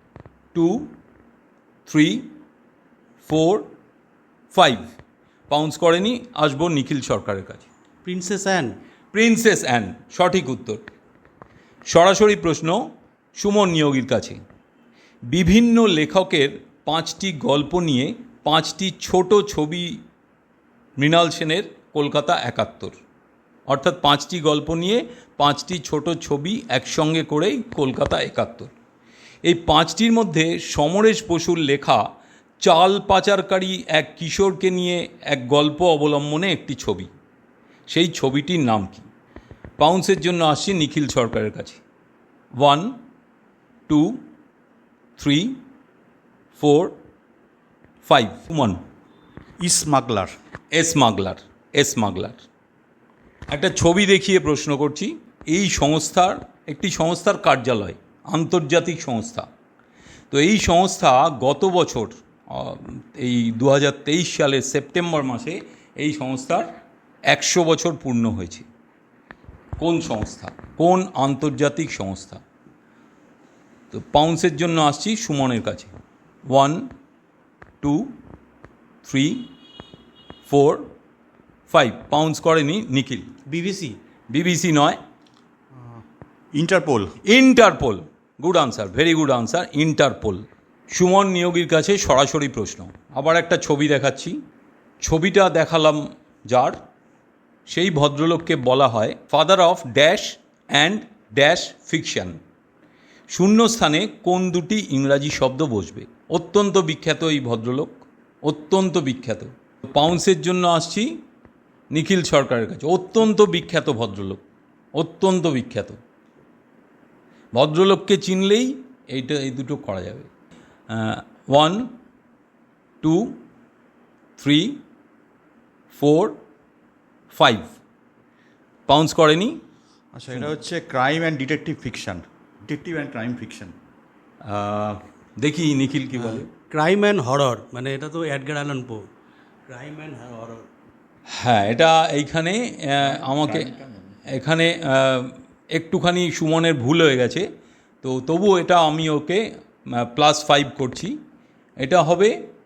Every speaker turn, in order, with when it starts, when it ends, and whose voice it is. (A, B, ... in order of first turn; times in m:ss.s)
0:00.5-0:00.9 A
0:01.8-0:02.3 A
0:03.2-0:03.7 A
0:04.5-0:04.9 A
0:05.5-0:07.7 A
0:08.0-0:08.8 B
0:09.1-0:10.8 A
0:11.9-0:14.4 A
0:15.3-0:20.0 A
0:21.0-0:23.0 A
0:23.7-0:28.7 A
0:29.4-0:32.0 A
0:32.6-0:37.1 A
0:37.9-0:39.1 A
0:39.8-0:41.8 A
0:42.6-0:43.0 A
0:43.9-0:44.2 A
0:45.2-0:45.6 A
0:46.5-0:47.0 A
0:48.0-0:48.8 A
0:49.6-0:50.3 C
0:50.7-0:52.4 A
0:53.5-0:59.5 A
1:00.3-1:06.7 A
1:07.3-1:08.6 A
1:09.8-1:12.4 A
1:13.9-1:15.9 A
1:16.5-1:16.9 A
1:17.8-1:18.1 A
1:19.0-1:19.5 A
1:20.4-1:20.9 A
1:21.7-1:23.3 A
1:23.5-1:24.0 B
1:24.3-1:25.0 A
1:26.5-1:27.1 C
1:27.2-1:34.4 A
1:35.0-1:36.8 A
1:37.7-1:42.4 A
1:43.3-1:51.2 A
1:51.9-1:54.4 A
1:54.9-1:56.0 A
1:57.5-2:00.3 A
2:00.9-2:01.9 A
2:03.0-2:03.4 A
2:04.4-2:04.8 A
2:05.9-2:06.4 A
2:07.3-2:07.7 A
2:08.9-2:09.6 A
2:10.2-2:13.7 C
2:14.4-2:16.5 A
2:16.2-2:19.1 B
2:19.7-2:20.6 B
2:21.3-2:23.8 A
2:24.3-2:27.5 A
2:28.0-2:31.2 A
2:31.8-2:32.4 A